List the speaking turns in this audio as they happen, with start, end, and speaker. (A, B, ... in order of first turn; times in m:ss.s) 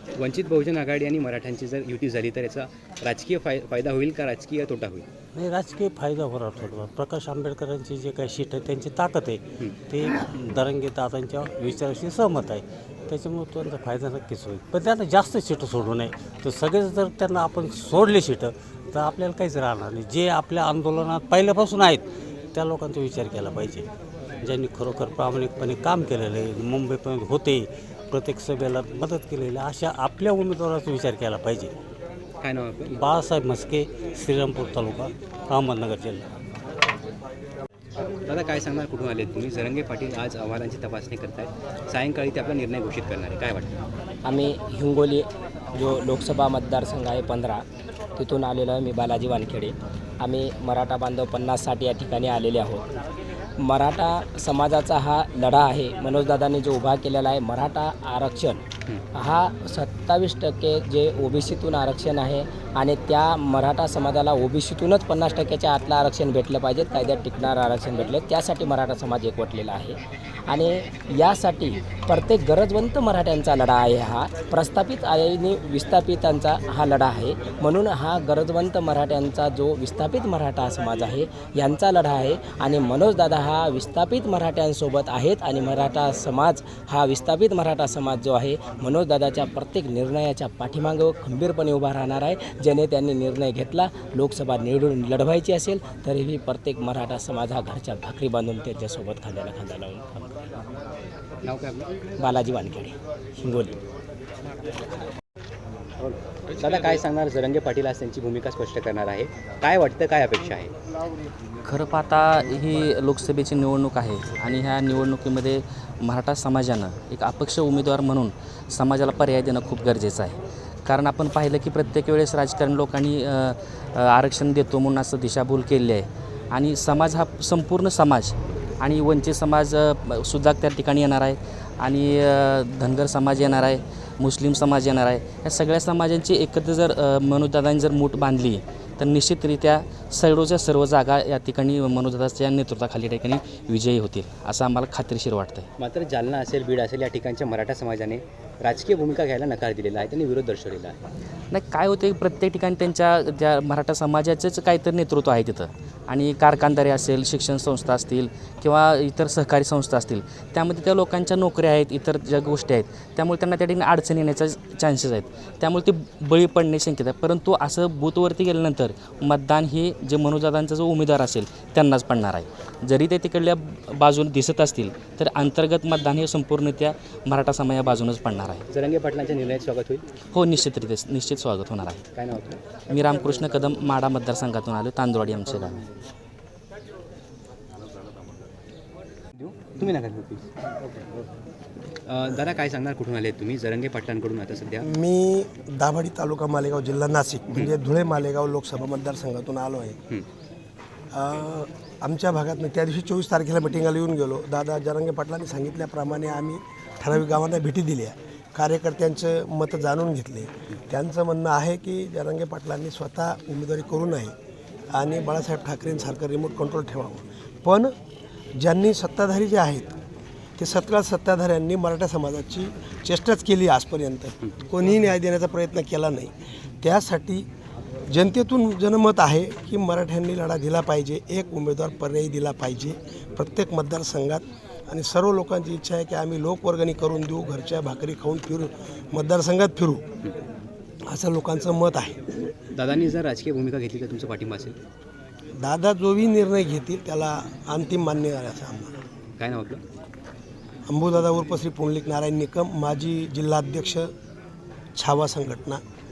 0:00.2-0:05.1 A
0:05.4-0:23.9 B
0:24.4-0:31.7 B
0:32.4-0:33.0 A
0:32.9-0:36.3 B
0:38.3-0:43.8 A
0:44.2-0:47.6 C
0:48.2-0:52.9 C
0:53.6-0:58.6 C
0:59.1-1:40.4 C
1:41.4-1:41.9 A
1:42.2-1:43.8 C
1:46.0-1:50.7 A
1:51.6-2:25.7 D
2:25.8-2:31.0 A
2:31.5-2:58.7 D
2:58.7-3:00.0 A
3:00.3-3:02.0 D
3:02.2-3:02.6 A
3:02.9-3:05.8 D
3:09.4-3:10.5 A
3:12.1-3:14.9 A
3:14.8-3:20.0 E
3:21.1-3:34.3 E
3:34.9-3:37.9 E
3:38.6-3:39.9 E
3:40.6-3:47.5 E
3:48.1-4:00.1 E
4:01.1-4:02.2 E
4:02.7-4:04.8 A
4:05.6-4:08.9 E
4:09.4-4:09.8 A
4:10.9-4:14.1 E
4:15.0-4:15.8 E